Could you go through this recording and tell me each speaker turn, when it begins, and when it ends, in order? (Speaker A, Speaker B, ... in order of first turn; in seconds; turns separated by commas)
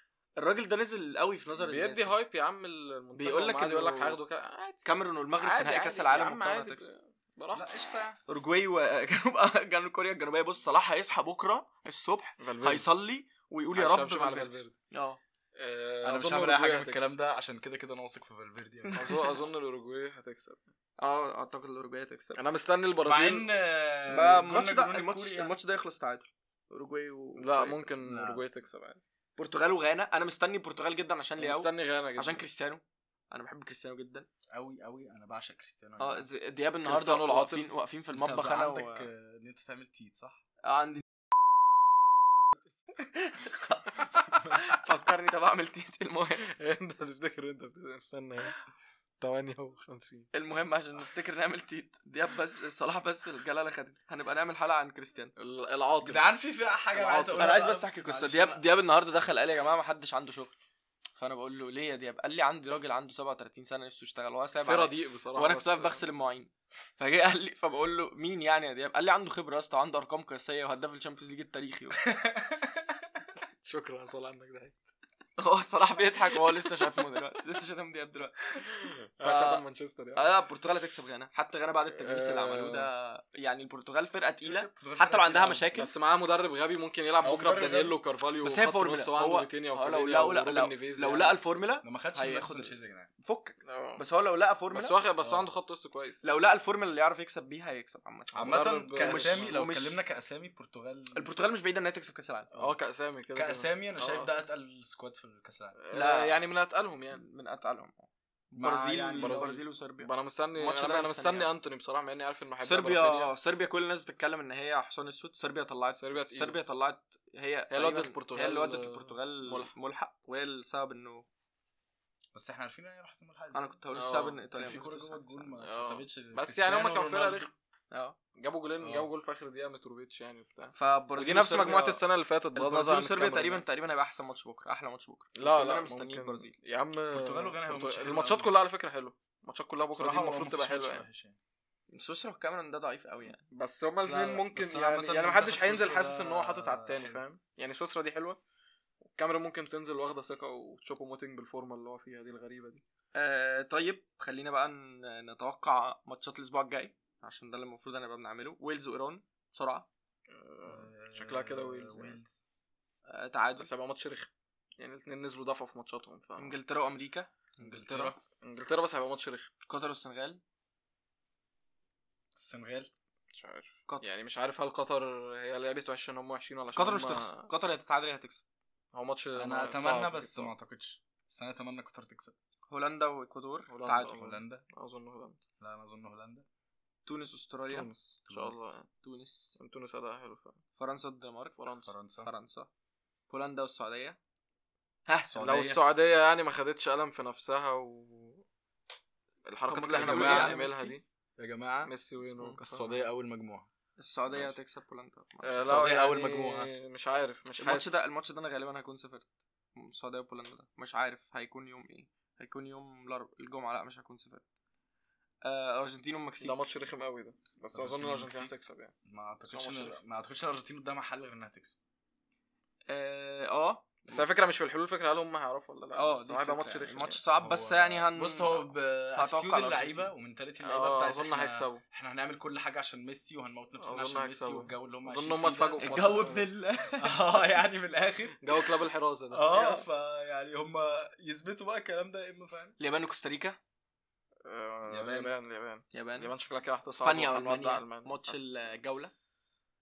Speaker A: 0.4-2.2, Speaker B: 1.6-7.7, Speaker A: 3.1-4.2, Speaker A: 4.8-6.8, Speaker C: 7.5-8.2, Speaker A: 8.3-15.2, Speaker B: 12.4-12.9, Speaker B: 13.8-14.8, Speaker B: 15.6-17.1, Speaker C: 16.0-19.1, Speaker A: 18.9-19.3, Speaker B: 18.9-20.6, Speaker A: 21.0-22.4, Speaker B: 22.4-23.5, Speaker C: 23.0-25.5, Speaker A: 24.1-27.9, Speaker B: 27.4-29.0, Speaker C: 28.0-28.4, Speaker A: 29.4-34.3, Speaker B: 31.4-32.5, Speaker C: 34.5-36.3, Speaker A: 36.0-39.1, Speaker B: 36.8-37.7, Speaker C: 38.1-40.4, Speaker A: 40.6-41.0, Speaker A: 43.0-46.5, Speaker C: 44.4-44.7, Speaker B: 46.4-48.6, Speaker B: 49.2-50.3, Speaker A: 50.3-55.3, Speaker B: 55.4-56.3, Speaker C: 56.0-58.7, Speaker B: 56.9-57.5, Speaker A: 57.3-60.5, Speaker A: 61.2-72.0, Speaker B: 64.7-66.0, Speaker C: 72.0-72.7, Speaker B: 73.6-74.8, Speaker A: 75.4-78.4, Speaker B: 78.7-80.3, Speaker A: 79.2-79.6, Speaker A: 80.2-85.9, Speaker B: 82.0-82.9, Speaker C: 84.5-85.7, Speaker B: 85.8-91.4, Speaker C: 87.2-88.0, Speaker A: 88.4-95.0, Speaker C: 91.8-93.1, Speaker B: 93.7-94.0, Speaker B: 94.7-96.2, Speaker C: 95.2-95.5, Speaker A: 96.2-100.0, Speaker C: 98.3-101.3, Speaker B: 98.5-99.5, Speaker A: 101.1-102.5, Speaker B: 102.6-104.3, Speaker C: 103.3-105.8, Speaker B: 105.8-107.2, Speaker A: 105.9-106.4, Speaker A: 107.1-111.5, Speaker C: 108.5-109.6, Speaker B: 109.2-113.3, Speaker A: 112.6-121.3, Speaker B: 116.0-116.6, Speaker B: 117.7-119.7, Speaker C: 122.3-123.7, Speaker A: 123.5-125.2, Speaker B: 124.0-124.4, Speaker C: 124.5-127.5, Speaker B: 125.4-127.5, Speaker A: 127.9-128.2, Speaker B: 128.4-133.7, Speaker C: 128.8-129.1, Speaker A: 130.7-132.0, Speaker A: 132.6-136.5, Speaker B: 135.4-141.1, Speaker C: 137.1-138.6, Speaker C: 139.9-141.4, Speaker A: 141.9-143.4, Speaker B: 143.5-148.4, Speaker C: 144.1-147.2, Speaker B: 149.1-152.8, Speaker A: 153.2-159.9, Speaker B: 160.3-162.2, Speaker C: 160.7-162.4, Speaker A: 163.1-163.7, Speaker B: 163.6-166.6, Speaker A: 166.4-168.2, Speaker C: 167.6-168.2, Speaker B: 168.4-169.5, Speaker A: 169.7-170.4, Speaker C: 172.3-172.9, Speaker B: 173.3-177.5, Speaker A: 176.8-178.4, Speaker B: 178.9-180.5, Speaker C: 179.4-182.3, Speaker A: 182.7-184.2, Speaker B: 183.7-185.4, Speaker C: 184.1-184.6, Speaker C: 185.6-186.4, Speaker A: 187.1-187.9, Speaker B: 187.7-188.9, Speaker C: 188.3-188.8, Speaker A: 189.0-189.6, Speaker B: 189.6-190.6, Speaker A: 190.8-191.7, Speaker B: 191.6-191.9, Speaker C: 191.9-192.3, Speaker A: 192.2-192.7, Speaker A: 193.3-194.2, Speaker A: 195.1-195.4, Speaker C: 195.3-195.8, Speaker B: 195.4-198.4, Speaker B: 199.5-201.0, Speaker A: 199.7-200.9, Speaker C: 199.9-200.6, Speaker C: 201.4-203.7, Speaker B: 201.9-203.0, Speaker A: 204.0-205.6, Speaker B: 205.4-208.0, Speaker C: 205.6-206.7, Speaker A: 207.6-214.4, Speaker A: 215.4-216.6, Speaker B: 216.4-218.9, Speaker C: 217.7-218.5, Speaker C: 219.1-221.8, Speaker B: 219.5-220.0, Speaker A: 222.9-223.9, Speaker B: 224.1-227.2, Speaker A: 226.0-230.1, Speaker C: 227.3-238.7, Speaker B: 230.6-231.8, Speaker B: 233.8-236.5, Speaker A: 235.8-237.2, Speaker B: 238.4-239.5, Speaker C: 239.3-242.8, Speaker A: 239.4-239.8, Speaker A: 242.8-243.6, Speaker B: 244.4-248.7, Speaker C: 244.9-245.3, Speaker A: 245.9-246.3, Speaker A: 247.0-249.1